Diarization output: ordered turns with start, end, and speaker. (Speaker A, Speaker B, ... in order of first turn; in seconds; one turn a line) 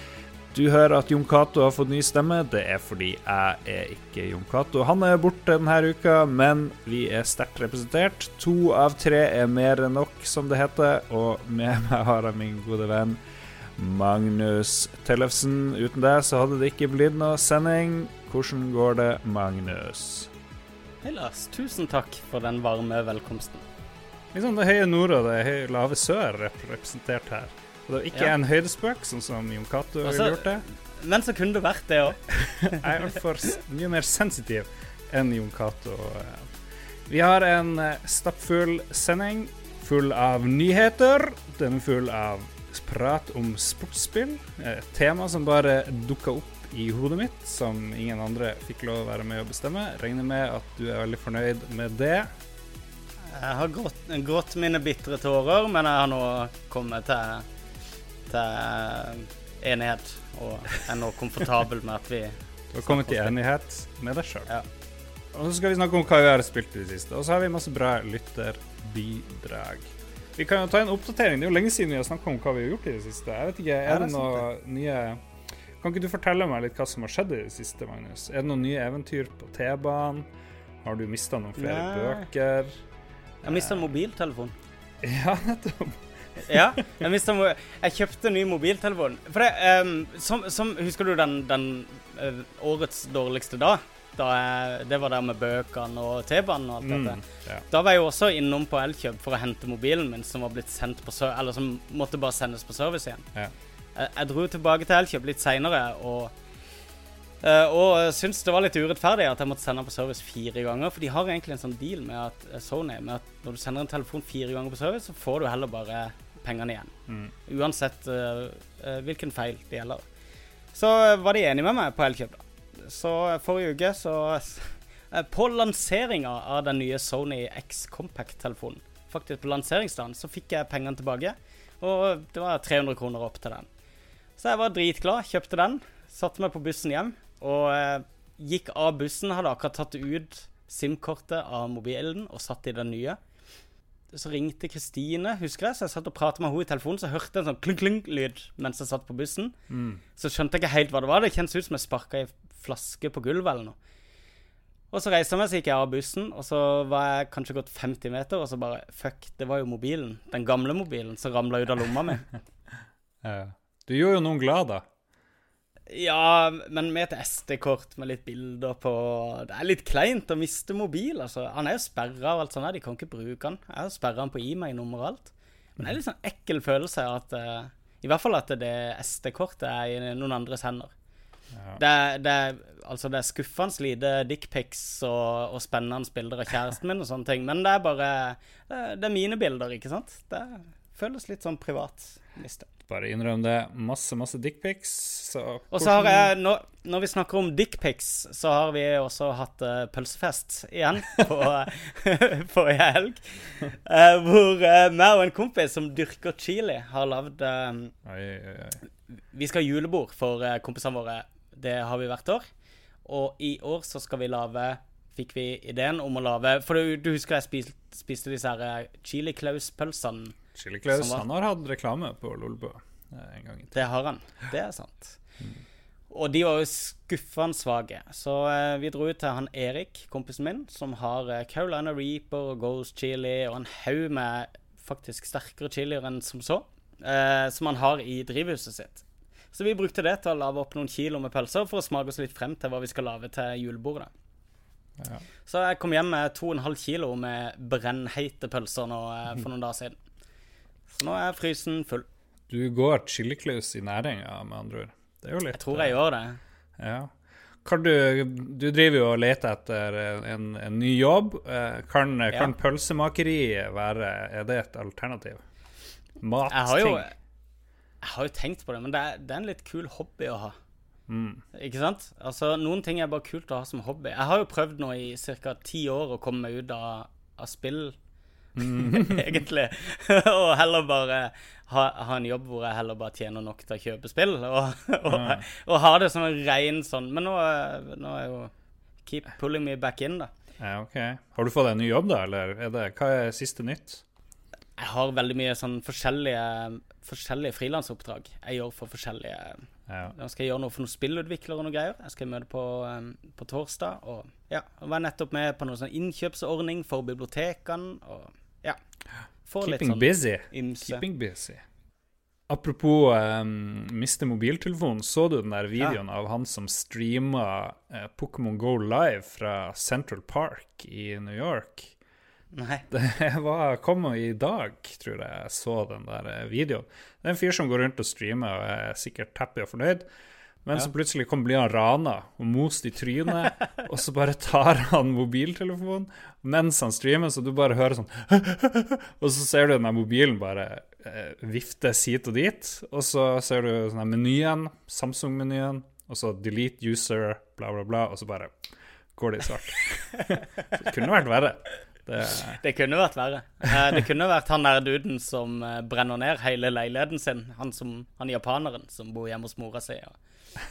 Speaker A: 0.5-13.2
Speaker A: 13.8-20.3
Speaker B: 21.0-23.6
Speaker A: 24.3-30.6
Speaker B: 30.0-32.9
Speaker A: 32.4-36.5
Speaker A: 37.1-52.3
Speaker B: 53.3-57.5
Speaker B: 58.3-63.4
Speaker A: 62.7-64.5
Speaker A: 65.3-75.2
Speaker B: 73.9-74.5
Speaker A: 75.8-80.3
Speaker A: 80.8-82.8
Speaker B: 81.6-82.3
Speaker A: 83.4-83.9
Speaker B: 83.4-84.5
Speaker A: 85.0-86.6
Speaker B: 86.4-103.2
Speaker A: 96.8-97.7
Speaker B: 104.0-106.3
Speaker B: 107.4-116.9
Speaker B: 117.5-120.0
Speaker B: 120.7-133.7
Speaker B: 134.4-143.2
Speaker B: 144.1-149.6
Speaker A: 149.7-150.0
Speaker B: 150.2-153.8
Speaker B: 154.9-162.3
Speaker A: 163.2-164.8
Speaker B: 165.9-180.9
Speaker A: 181.5-181.8
Speaker B: 181.8-192.7
Speaker A: 192.9-196.3
Speaker B: 195.7-207.9
Speaker A: 208.1-208.8
Speaker B: 209.3-212.4
Speaker B: 213.1-220.4
Speaker A: 220.6-223.8
Speaker B: 220.9-221.2
Speaker B: 223.7-225.2
Speaker B: 226.1-244.1
Speaker A: 245.0-245.2
Speaker B: 245.5-250.0
Speaker B: 250.9-252.1
Speaker A: 252.5-256.0
Speaker B: 255.5-256.4
Speaker A: 256.8-257.1
Speaker A: 257.6-265.4
Speaker A: 266.2-267.1
Speaker B: 266.5-267.1
Speaker B: 268.0-270.6
Speaker A: 271.1-271.4
Speaker B: 271.5-278.0
Speaker A: 278.6-279.4
Speaker B: 278.6-288.5
Speaker A: 285.1-285.4
Speaker B: 289.1-290.3
Speaker A: 290.6-294.0
Speaker B: 294.8-308.8
Speaker A: 299.9-300.1
Speaker B: 309.5-311.0
Speaker A: 309.6-311.6
Speaker A: 312.5-321.9
Speaker B: 322.5-322.9
Speaker A: 322.9-330.1
Speaker A: 330.6-348.5
Speaker A: 349.2-352.6
Speaker B: 352.5-360.2